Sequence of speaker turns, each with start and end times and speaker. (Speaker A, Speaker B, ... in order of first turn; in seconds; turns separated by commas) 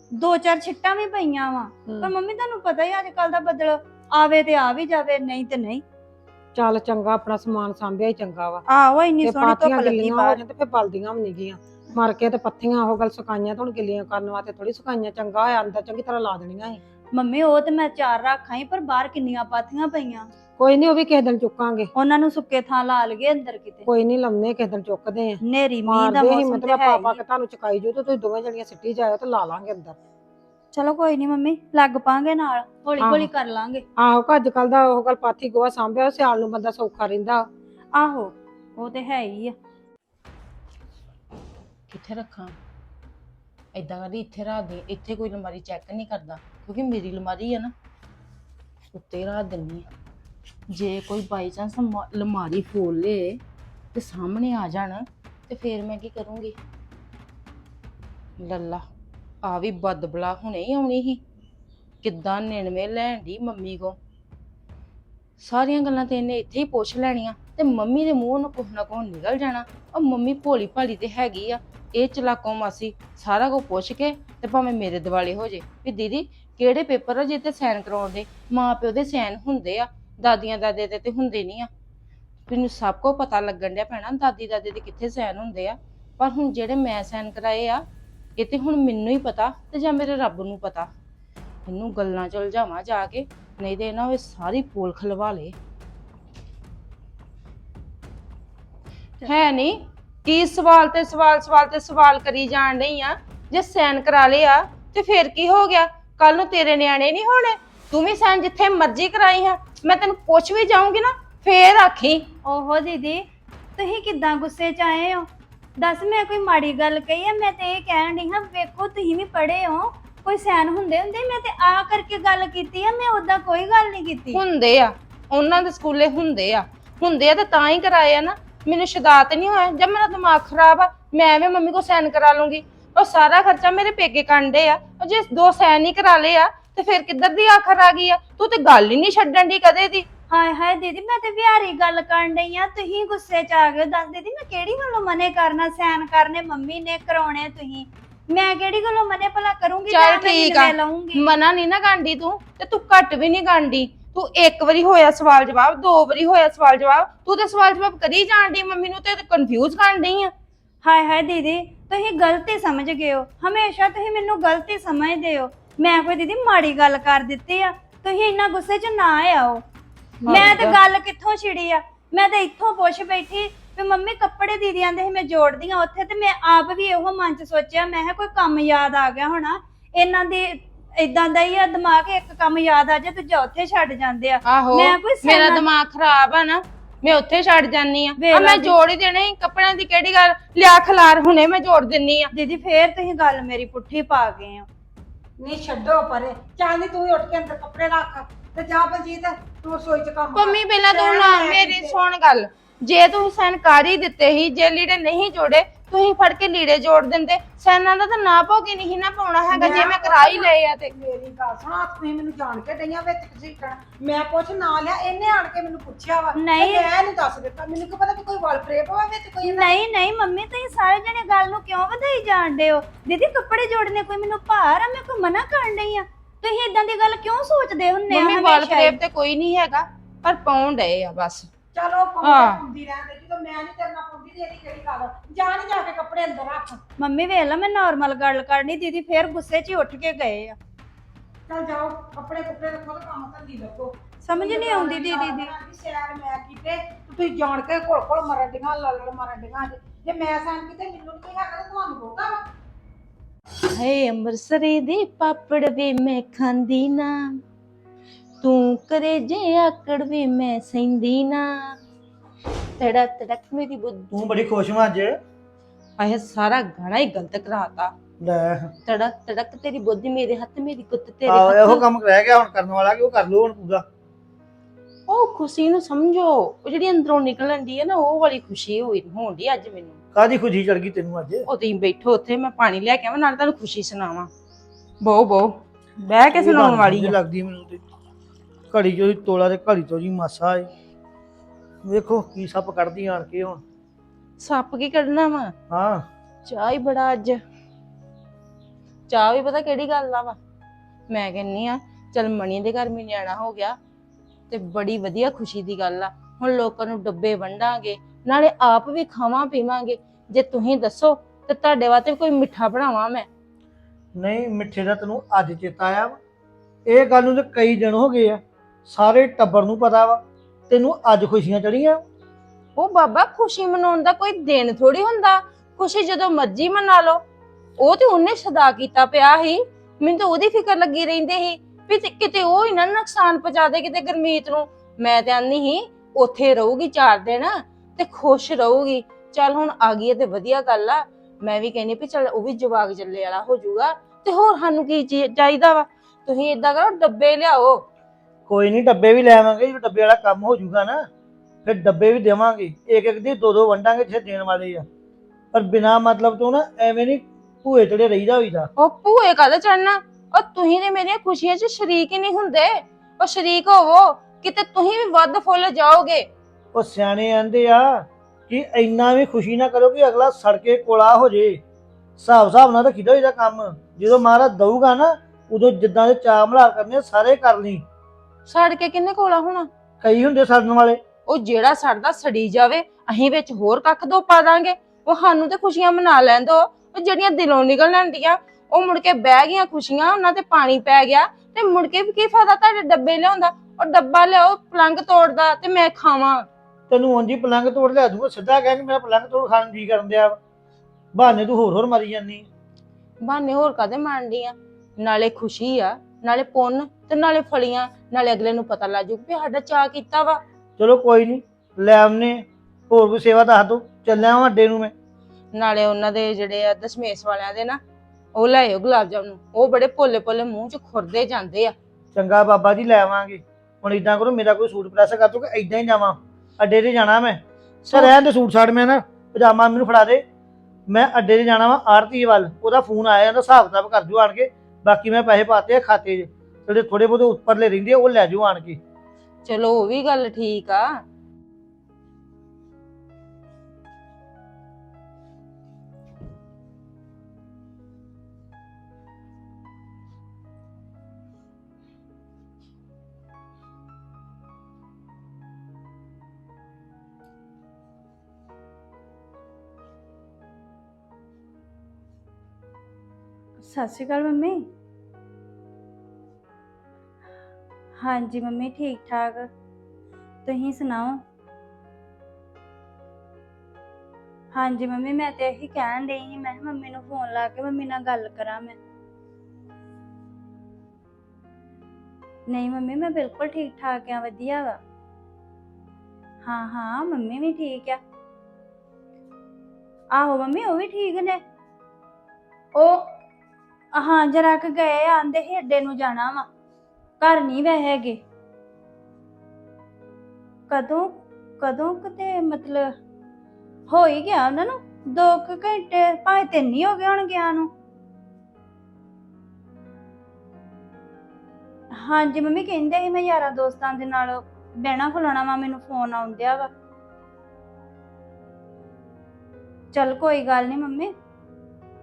Speaker A: 0.2-5.8, Speaker B: 6.5-8.6, Speaker A: 8.7-10.4, Speaker B: 9.4-16.8, Speaker A: 17.1-20.3, Speaker B: 20.6-21.9, Speaker A: 22.0-23.9, Speaker B: 23.9-25.4, Speaker A: 25.4-27.2, Speaker B: 26.0-29.9, Speaker A: 30.7-33.8, Speaker B: 34.0-37.5, Speaker A: 37.9-39.5, Speaker C: 41.9-42.6, Speaker C: 43.7-47.7, Speaker C: 48.9-49.9, Speaker C: 50.7-53.4, Speaker C: 53.9-56.5, Speaker C: 58.4-58.8, Speaker C: 59.4-61.2, Speaker C: 62.0-64.0, Speaker C: 65.4-81.7, Speaker C: 82.5-87.8, Speaker C: 88.4-90.9, Speaker C: 91.7-95.5, Speaker C: 99.2-112.3, Speaker A: 112.4-113.2, Speaker A: 113.8-115.3, Speaker A: 115.8-124.4, Speaker C: 124.3-140.1, Speaker A: 140.3-151.2, Speaker C: 149.9-160.3, Speaker A: 160.8-169.6, Speaker B: 170.3-170.7, Speaker A: 170.3-185.6, Speaker C: 184.5-192.3, Speaker A: 188.2-188.8, Speaker A: 192.3-194.7, Speaker B: 195.4-202.0, Speaker C: 200.3-210.9, Speaker B: 209.6-219.6, Speaker A: 216.4-216.9, Speaker A: 219.4-229.0, Speaker C: 228.1-231.5, Speaker B: 231.8-236.8, Speaker C: 232.2-232.6, Speaker A: 237.0-240.6, Speaker B: 241.5-252.4, Speaker A: 244.2-245.5, Speaker C: 253.7-257.2, Speaker C: 258.4-261.8, Speaker C: 262.8-264.1, Speaker D: 264.1-265.2, Speaker C: 266.0-267.9, Speaker D: 268.2-268.7, Speaker C: 268.9-271.9, Speaker D: 271.3-273.9, Speaker C: 275.1-280.0, Speaker D: 280.1-281.5, Speaker C: 281.5-284.3, Speaker C: 285.0-287.2, Speaker D: 286.3-287.8, Speaker D: 288.7-290.7, Speaker D: 291.9-293.6, Speaker C: 294.4-295.5, Speaker D: 295.7-296.1, Speaker C: 296.5-297.4, Speaker C: 299.1-300.4, Speaker C: 301.1-303.8, Speaker C: 304.5-313.3, Speaker D: 314.2-316.2, Speaker D: 316.9-322.0, Speaker C: 322.8-327.2, Speaker C: 327.8-347.9, Speaker D: 348.5-351.0, Speaker D: 351.6-354.9, Speaker D: 355.5-358.7, Speaker C: 358.8-366.3, Speaker D: 366.7-371.6, Speaker D: 372.2-377.8, Speaker C: 378.5-379.7, Speaker D: 380.0-381.0, Speaker C: 381.3-396.5, Speaker D: 396.9-400.4, Speaker D: 401.1-402.5, Speaker C: 403.2-410.4, Speaker D: 410.8-414.9, Speaker C: 415.5-417.8, Speaker C: 418.4-421.7, Speaker D: 422.1-430.2, Speaker D: 430.9-438.8, Speaker C: 439.4-440.9, Speaker A: 463.6-464.6, Speaker A: 468.0-469.5, Speaker A: 470.4-471.2, Speaker A: 474.5-478.8, Speaker A: 482.5-484.8, Speaker A: 486.4-488.0, Speaker A: 490.1-491.4, Speaker A: 492.7-493.1, Speaker A: 493.9-496.5, Speaker A: 497.2-498.2, Speaker A: 500.7-502.9, Speaker A: 503.9-507.7, Speaker A: 512.0-516.7, Speaker A: 519.9-521.1